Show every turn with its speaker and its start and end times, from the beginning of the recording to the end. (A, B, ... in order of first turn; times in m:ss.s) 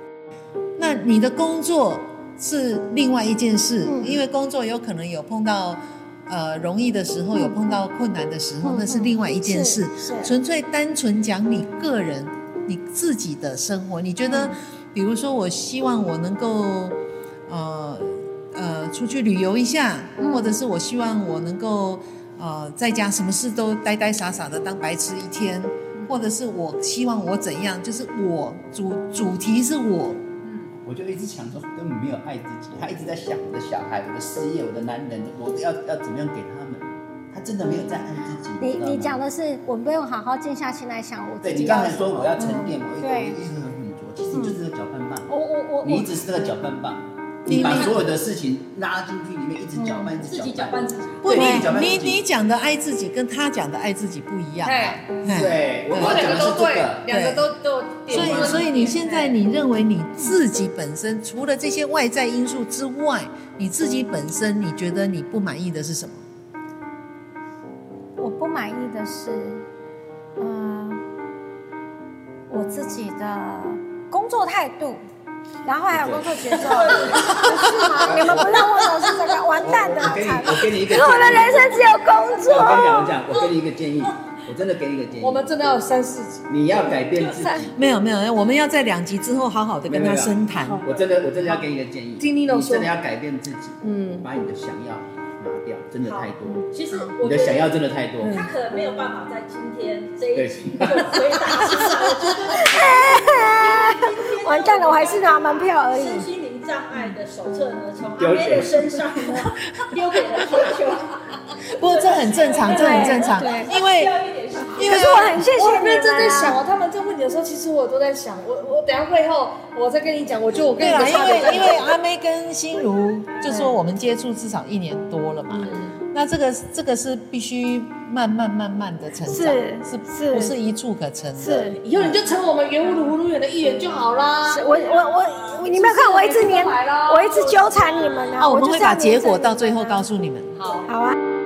0:00.8-0:30.2 A
0:03.8-0:04.1 B
0:08.6-0:10.3 B
0:14.3-0:14.5 B
0:30.4-0:30.7 C
0:30.8-0:39.2 D
0:38.6-0:43.4 B
0:41.4-0:45.3 D
0:44.3-0:44.6 B
0:45.3-0:46.1 B
0:45.8-0:52.2 D
0:47.4-0:48.1 A
0:47.5-0:48.0 C
0:50.2-0:51.6 C
0:51.2-0:56.4 A
0:54.6-0:55.1 E
0:55.3-0:57.1 D
0:55.9-0:59.4 E
0:57.1-0:57.5 A
0:58.1-1:06.2 A
0:58.1-0:59.0 C
1:08.2-1:09.6 B
1:10.4-1:11.0 B
1:12.5-1:15.0 B
1:15.6-1:23.2 B
1:15.9-1:17.0 D
1:16.4-1:17.8 E
1:16.6-1:17.4 C
1:17.5-1:17.7 A
1:18.0-1:18.6 D
1:19.6-1:21.9 D
1:22.4-1:25.5 D
1:25.2-1:26.4 E
1:26.5-1:27.8 D
1:27.1-1:27.5 C
1:27.7-1:30.8 A
1:29.9-1:36.6 D
1:32.2-1:32.9 E
1:33.8-1:34.2 E
1:36.0-1:55.0 C
1:37.2-1:38.4 D
1:38.2-1:38.5 E
1:40.3-1:41.3 D
1:42.5-1:46.3 B
1:48.2-1:49.1 D
1:51.7-1:54.1 A
1:52.7-1:53.7 B
1:54.8-1:55.4 A
1:54.8-1:56.6 B
1:54.8-2:01.9 E
2:00.8-2:12.2 A
2:05.5-2:05.9 E
2:09.2-2:10.5 B
2:11.4-2:11.7 B
2:11.7-2:14.6 E
2:14.4-2:20.0 B
2:14.6-2:15.6 C
2:15.6-2:17.7 E
2:17.6-2:18.3 C
2:18.4-2:20.6 A
2:20.6-2:20.9 E
2:20.8-2:21.2 B